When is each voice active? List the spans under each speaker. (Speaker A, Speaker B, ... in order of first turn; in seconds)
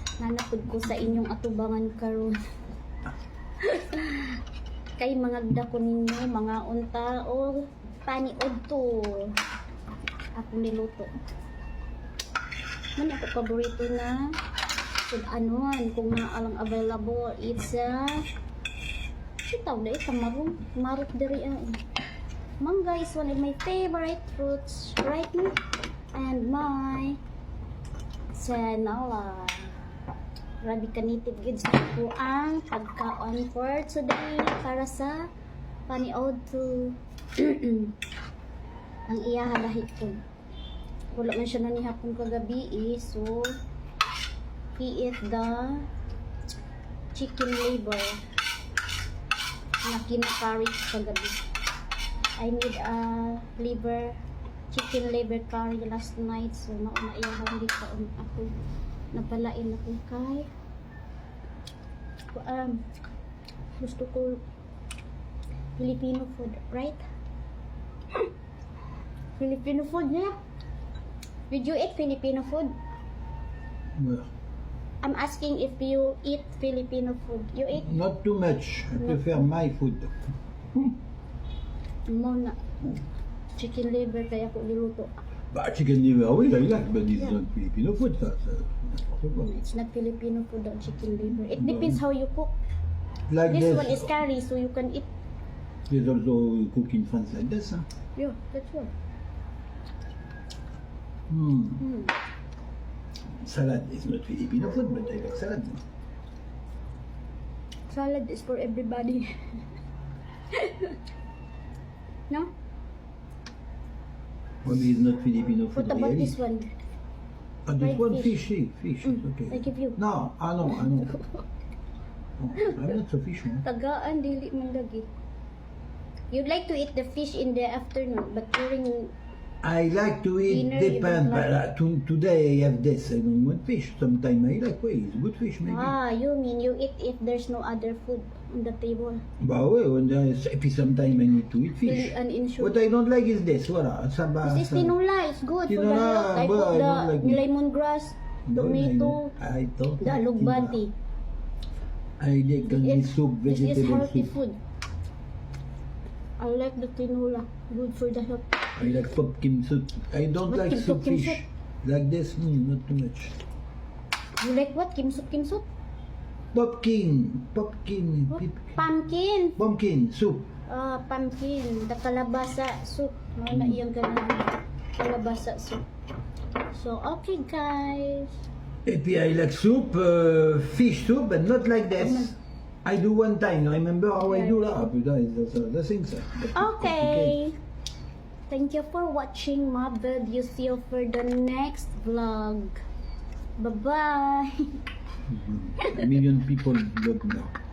Speaker A: 0.2-2.4, 3.6-4.4, 5.0-9.3, 10.3-11.1, 13.0-14.3, 15.1-18.2, 19.4-21.8, 22.6-25.6, 26.1-27.2, 28.3-29.8, 30.6-35.3, 35.9-38.0, 39.1-40.2, 41.1-43.5, 44.8-45.9, 47.1-48.2, 49.8-51.4, 52.4-54.2, 54.7-58.5, 59.1-60.5, 62.3-62.8, 63.8-64.4, 65.8-67.0, 69.4-70.3, 71.5-72.7, 75.0-77.9, 79.0-79.4, 82.1-82.6, 83.5-85.1, 89.4-92.5, 93.4-95.1, 98.2-98.9, 101.8-102.1, 107.9-109.3, 110.5-111.0, 115.7-116.7, 117.8-118.4, 119.0-120.0, 120.8-121.4, 122.6-122.8, 123.6-125.1, 126.3-129.1, 130.4-131.5, 135.7-139.2, 141.8-142.8, 144.4-149.3, 150.0-150.9, 152.6-154.6, 156.4-158.7, 160.5-161.4, 164.4-165.6, 168.3-169.6, 170.7-175.9, 176.7-178.3, 182.0-182.3, 184.2-184.7, 186.5-187.5, 188.5-192.8, 193.6-194.8, 195.8-196.2
Speaker B: 73.9-74.3, 77.7-80.2, 85.5-89.5, 91.6-92.0, 93.3-94.1, 95.9-97.8, 101.3-101.8, 103.4-105.8, 114.6-116.3, 117.7-121.1, 122.4-123.6, 129.6-135.9, 139.4-144.9, 145.7-147.4, 148.5-150.8, 152.2-154.3, 158.8-163.4, 166.5-168.8, 169.6-170.5, 173.5-173.8, 178.8-187.4, 195.3-197.5